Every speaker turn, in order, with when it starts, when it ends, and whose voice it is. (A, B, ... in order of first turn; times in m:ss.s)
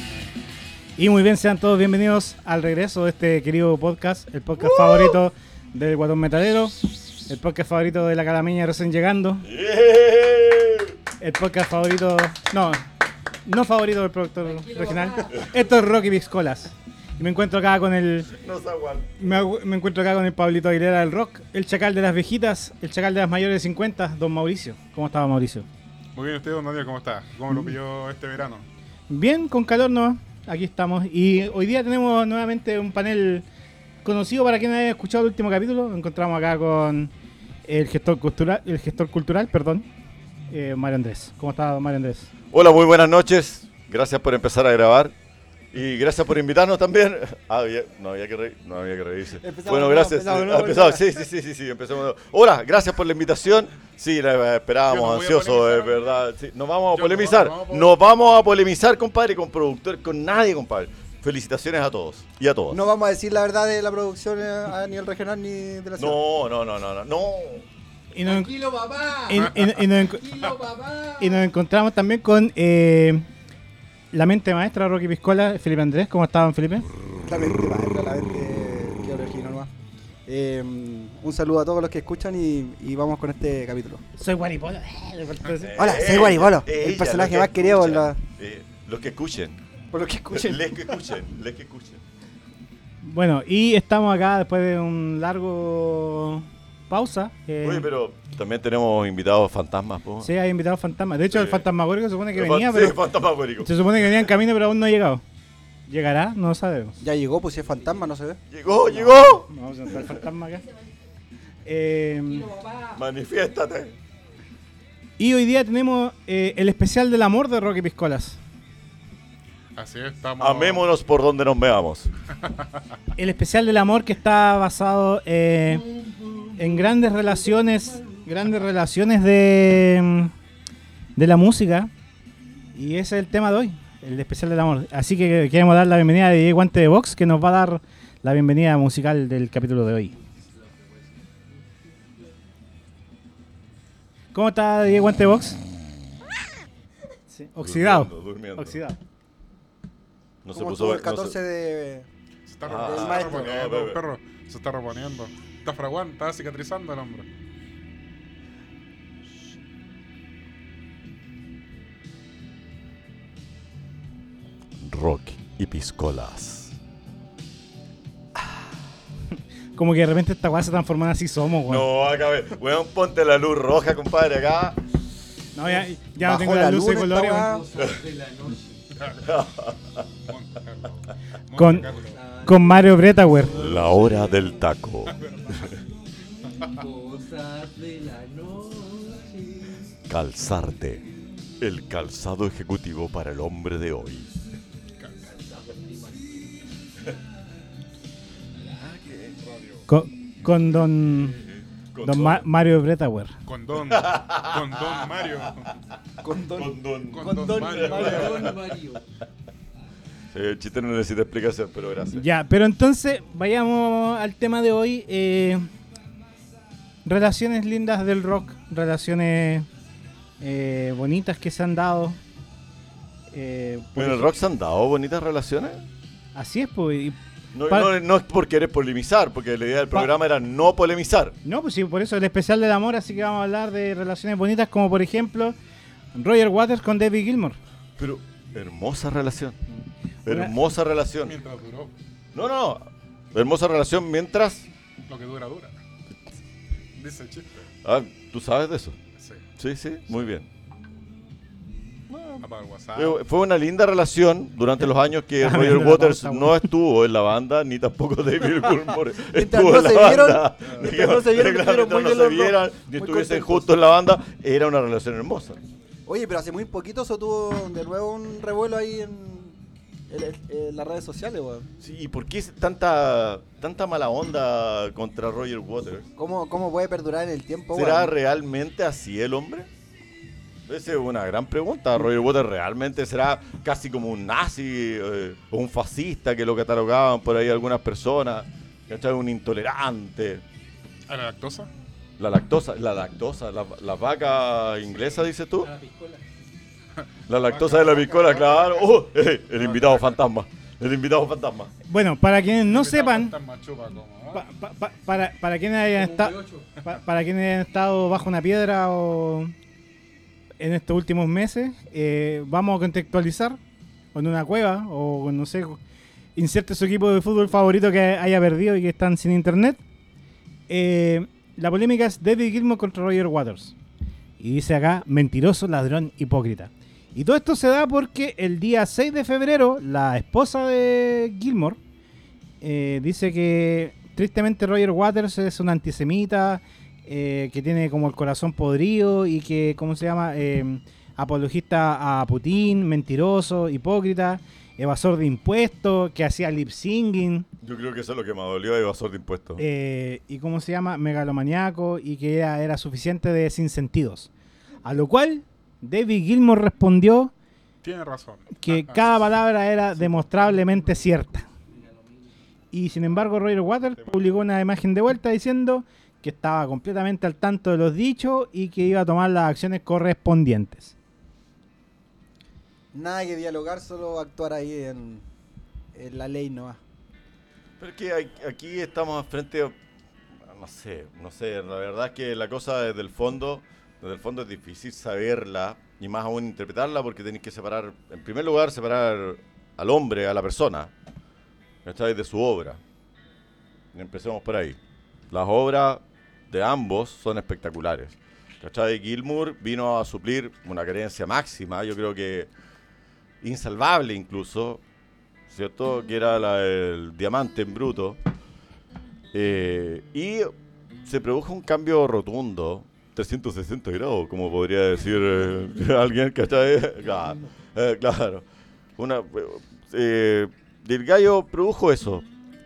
0:01.0-0:09.5 A
0:04.6-0:05.2 B
0:09.4-0:11.0 B
0:11.2-0:12.8 A
0:13.5-0:18.3 A
0:14.4-0:15.5 C
0:18.3-0:19.4 B
0:19.2-0:25.7 A
0:26.1-0:28.6 D
0:29.1-0:33.4 A
0:34.0-0:37.1 A
0:37.7-0:39.9 A
0:40.5-0:42.3 A
0:42.5-0:45.1 B
0:45.7-1:02.8 B
0:49.4-0:51.1 E
0:54.9-0:56.0 D
0:56.9-0:57.9 D
1:02.7-1:06.2 E
1:06.0-1:07.6 B
1:08.1-1:08.5 A
1:08.2-1:11.4 C
1:09.3-1:10.2 A
1:11.2-1:13.2 A
1:14.1-1:16.9 A
1:17.3-1:19.7 E
1:20.3-1:24.0 E
1:24.2-1:25.7 A
1:25.6-1:29.6 B
1:25.8-1:28.2 E
1:29.9-1:30.9 E
1:30.3-1:32.0 B
1:33.0-1:37.9 A
1:37.6-1:40.3 B
1:40.2-1:43.0 A
1:41.3-1:41.6 B
1:42.3-1:44.3 B
1:43.6-1:45.2 A
1:45.9-1:47.0 A
1:47.0-1:48.4 E
1:48.5-1:50.2 B
1:48.9-1:50.7 A
1:51.6-1:52.6 A
1:52.3-1:53.0 C
1:52.9-1:53.9 B
1:55.2-1:58.4 A
1:59.8-2:00.9 D
2:00.4-2:02.1 B
2:03.2-2:05.9 A
2:06.6-2:10.3 A
2:11.2-2:11.9 A
2:12.8-2:20.1 A
2:20.4-2:21.4 C
2:24.3-2:25.6 A
2:27.3-2:29.0 A
2:27.6-2:28.8 B
2:30.4-2:31.4 B
2:30.5-2:32.1 E
2:32.5-2:37.2 D
2:32.6-2:34.0 B
2:32.7-2:33.6 E
2:44.8-2:46.8 B
2:49.8-2:51.8 A
2:51.7-2:54.8 B
2:55.5-2:57.5 A
2:55.6-2:57.6 E
2:57.3-2:58.9 C
2:59.2-3:00.0 B
3:00.3-3:02.2 D
3:01.6-3:01.9 A
3:02.0-3:03.0 C
3:02.4-3:03.8 A
3:03.5-3:05.1 B
3:03.7-3:04.4 C
3:05.1-3:05.6 D
3:06.6-3:09.8 C
3:10.1-3:11.0 B
3:11.6-3:14.3 B
3:15.2-3:16.6 C
3:18.7-3:19.4 B
3:19.5-3:19.8 D
3:19.9-3:21.4 A
3:21.1-3:22.4 B
3:22.0-3:23.3 A
3:23.4-3:25.7 D
3:23.8-3:25.2 B
3:26.2-3:28.6 E
3:26.5-3:28.7 B
3:27.1-3:28.5 D
3:27.9-3:29.0 C
3:30.3-3:32.3 B
3:32.1-3:35.7 A
3:37.0-3:39.7 A
3:40.4-3:42.2 A
3:43.3-3:44.3 A
3:44.0-3:45.8 B
3:46.3-3:47.9 A
3:47.5-3:51.4 B
3:51.4-3:55.6 A
3:56.1-3:57.6 A
3:58.0-3:59.6 B
4:00.2-4:01.3 B
4:00.2-4:00.5 A
4:01.2-4:01.9 D
4:02.3-4:04.7 B
4:05.1-4:05.8 D
4:06.9-4:07.5 D
4:07.8-4:09.0 B
4:09.2-4:09.4 D
4:09.6-4:10.5 B
4:12.1-4:25.6 B
4:12.4-4:13.2 D
4:15.4-4:16.7 A
4:19.3-4:23.8 E
4:26.1-4:29.6 E
4:30.1-4:31.7 E
4:31.8-4:36.1 B
4:36.2-4:38.1 E
4:37.7-4:39.7 B
4:40.7-4:50.4 B
4:51.1-4:51.7 D
4:52.2-4:55.7 B
4:55.6-4:56.2 C
4:57.3-5:01.7 B
4:57.3-4:58.7 D
4:59.6-5:00.2 D
5:01.9-5:03.3 A
5:02.6-5:04.4 D
5:04.3-5:09.5 A
5:05.9-5:06.7 C
5:10.6-5:13.6 A
5:14.1-5:15.8 A
5:16.4-5:19.8 A
5:20.7-5:23.8 A
5:24.4-5:31.8 A
5:32.6-5:47.5 A
5:47.6-5:49.6 B
5:49.6-5:54.3 A
5:54.8-5:57.3 A
5:57.8-5:59.2 D
5:58.6-6:01.4 A
6:00.1-6:01.0 D
6:01.7-6:02.3 C
6:02.7-6:10.9 A
6:04.0-6:04.2 D
6:12.9-6:15.2 E
6:15.9-6:16.8 E
6:17.8-6:19.8 B
6:20.4-6:30.9 B
6:31.8-6:32.8 B
6:33.9-6:34.8 B
6:35.3-6:42.5 B
6:43.4-6:44.8 B
6:45.5-6:48.2 B
6:49.3-6:50.5 B
6:51.0-6:58.4 B
6:59.0-7:02.2 B